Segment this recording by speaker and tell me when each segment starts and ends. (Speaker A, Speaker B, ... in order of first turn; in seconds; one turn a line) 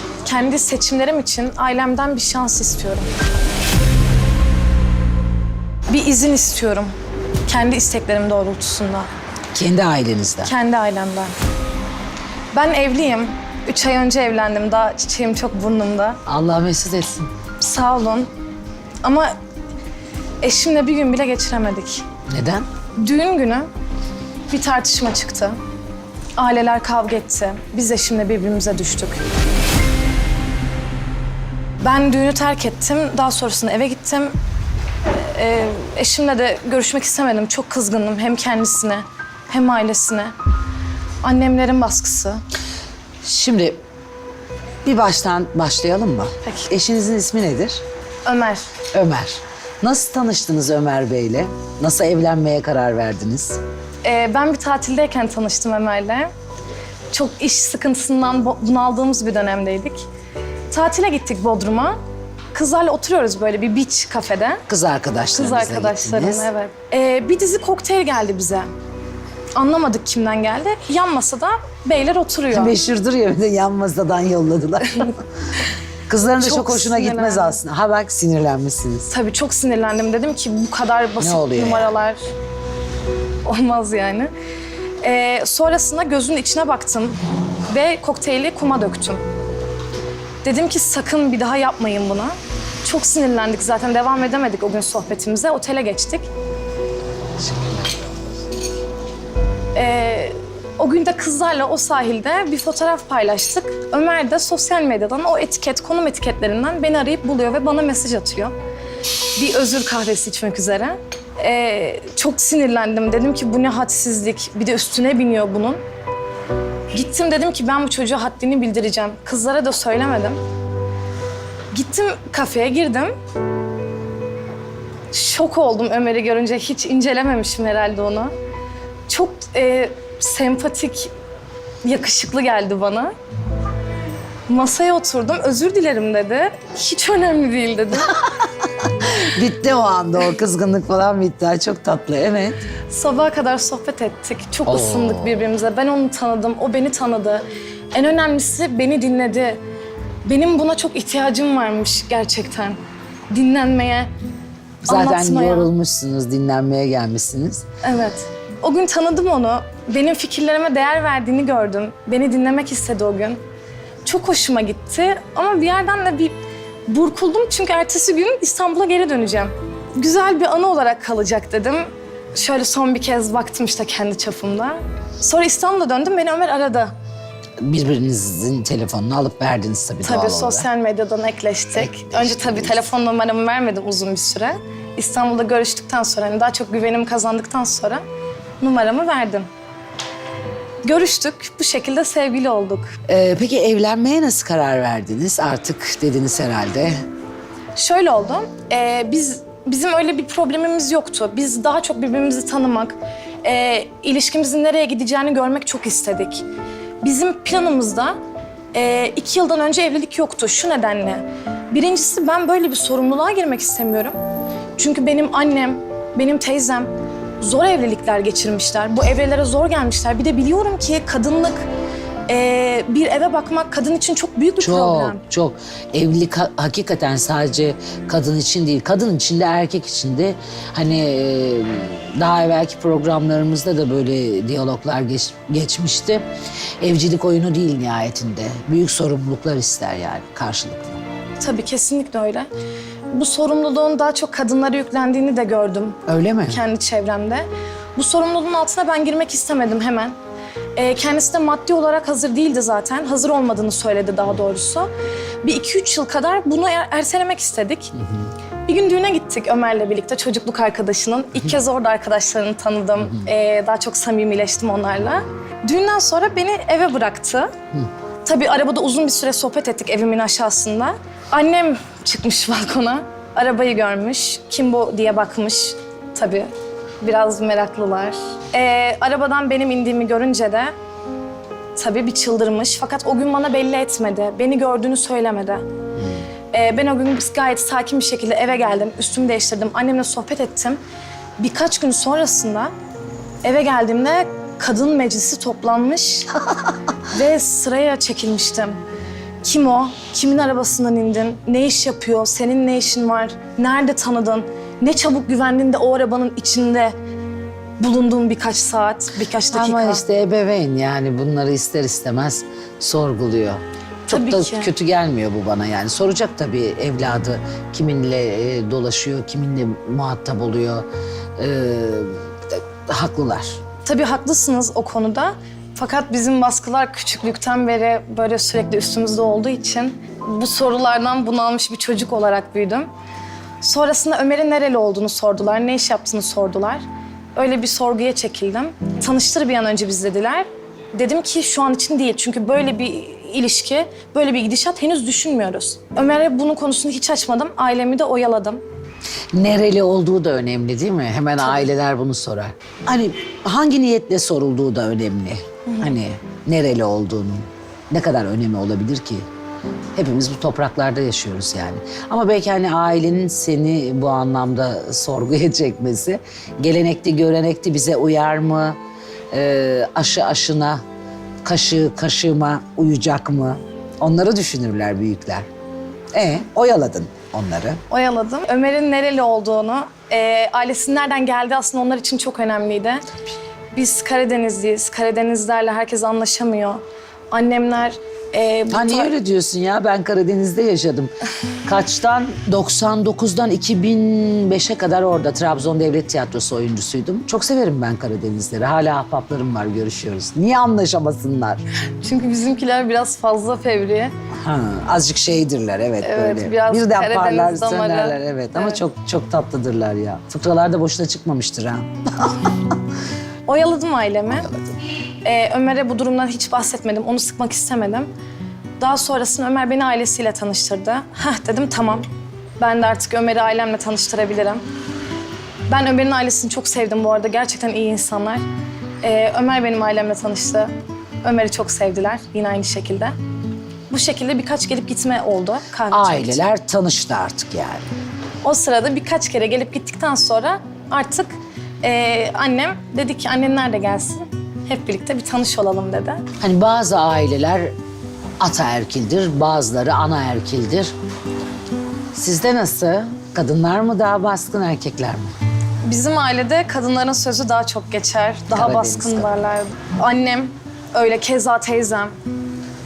Speaker A: 0.2-3.1
Speaker A: 5.9-6.9
Speaker A: 7.5-9.1
Speaker B: 9.5-10.5
Speaker A: 10.4-11.3
Speaker A: 12.5-16.2
Speaker B: 16.2-17.3
Speaker A: 17.6-18.3
Speaker A: 19.0-19.3
Speaker A: 20.4-22.0
Speaker B: 22.3-22.7
Speaker A: 22.9-23.7
Speaker A: 24.5-25.6
Speaker A: 26.4-29.2
Speaker A: 31.8-34.3
Speaker A: 35.1-40.3
Speaker A: 41.2-42.4
Speaker B: 43.2-43.8
Speaker B: 44.8-47.8
Speaker A: 46.4-46.7
Speaker A: 48.2-48.7
Speaker B: 48.9-53.6
Speaker A: 54.0-56.3
Speaker A: 57.1-60.1
Speaker A: 60.7-62.0
Speaker A: 62.5-64.6
Speaker B: 64.7-66.5
Speaker A: 65.3-68.7
Speaker A: 69.5-72.7
Speaker B: 72.5-75.2
Speaker B: 76.1-79.1
Speaker A: 76.4-77.6
Speaker A: 79.0-82.2
Speaker B: 81.2-81.9
Speaker A: 83.4-84.3
Speaker A: 85.0-89.2
Speaker A: 90.4-96.3
Speaker A: 99.7-108.5
Speaker A: 109.3-115.8
Speaker A: 116.9-120.4
Speaker A: 121.7-123.1
Speaker A: 125.1-128.3
Speaker A: 129.1-131.1
Speaker A: 131.8-133.1
Speaker A: 134.5-138.3
Speaker B: 138.6-142.6
Speaker A: 142.9-149.6
Speaker B: 144.7-145.4
Speaker A: 150.2-152.8
Speaker A: 153.3-154.1
Speaker A: 154.8-155.7
Speaker B: 154.9-157.6
Speaker A: 157.8-163.4
Speaker A: 164.0-166.3
Speaker A: 166.9-176.9
Speaker B: 177.6-180.7
Speaker A: 180.0-188.0
Speaker B: 181.7-182.9
Speaker A: 188.6-189.5
Speaker A: 190.8-192.9
Speaker B: 193.1-196.9
Speaker A: 197.8-206.4
Speaker A: 207.0-208.2
Speaker A: 208.7-214.2
Speaker A: 214.8-221.7
Speaker A: 222.3-225.2
Speaker B: 224.6-236.2
Speaker B: 236.8-241.0
Speaker A: 241.4-242.5
Speaker A: 243.1-250.2
Speaker B: 246.1-246.6
Speaker A: 250.8-254.9
Speaker A: 255.4-258.0
Speaker A: 258.6-267.5
Speaker A: 268.2-280.7
Speaker A: 281.8-285.6
Speaker A: 286.5-290.8
Speaker A: 291.4-292.7
Speaker A: 293.4-296.3
Speaker A: 297.1-298.8
Speaker A: 299.4-306.9
Speaker A: 307.8-310.0
Speaker B: 309.5-320.9
Speaker A: 314.1-314.7
Speaker B: 321.4-323.6
Speaker A: 323.8-332.9
Speaker A: 333.6-336.8
Speaker A: 337.4-348.6
Speaker B: 349.3-359.2
Speaker A: 351.4-351.7
Speaker A: 355.7-356.0
Speaker B: 359.9-368.8
Speaker B: 369.3-370.8
Speaker B: 371.4-375.4
Speaker B: 376.1-377.8
Speaker A: 377.9-383.0
Speaker A: 383.7-389.1
Speaker B: 388.7-391.1
Speaker B: 391.6-401.6
Speaker A: 402.0-404.1
Speaker B: 404.4-412.7
Speaker A: 406.0-408.8
Speaker A: 413.4-414.5
Speaker B: 414.3-414.7
Speaker A: 415.2-418.1
Speaker A: 418.8-422.1
Speaker A: 422.6-424.6
Speaker A: 425.7-428.4
Speaker A: 429.0-430.7
Speaker A: 431.2-433.1
Speaker A: 433.9-436.4
Speaker B: 435.9-437.9
Speaker A: 438.4-446.2
Speaker B: 446.4-447.7
Speaker B: 448.4-450.9
Speaker B: 452.1-455.3
Speaker A: 455.8-462.1
Speaker B: 458.5-459.3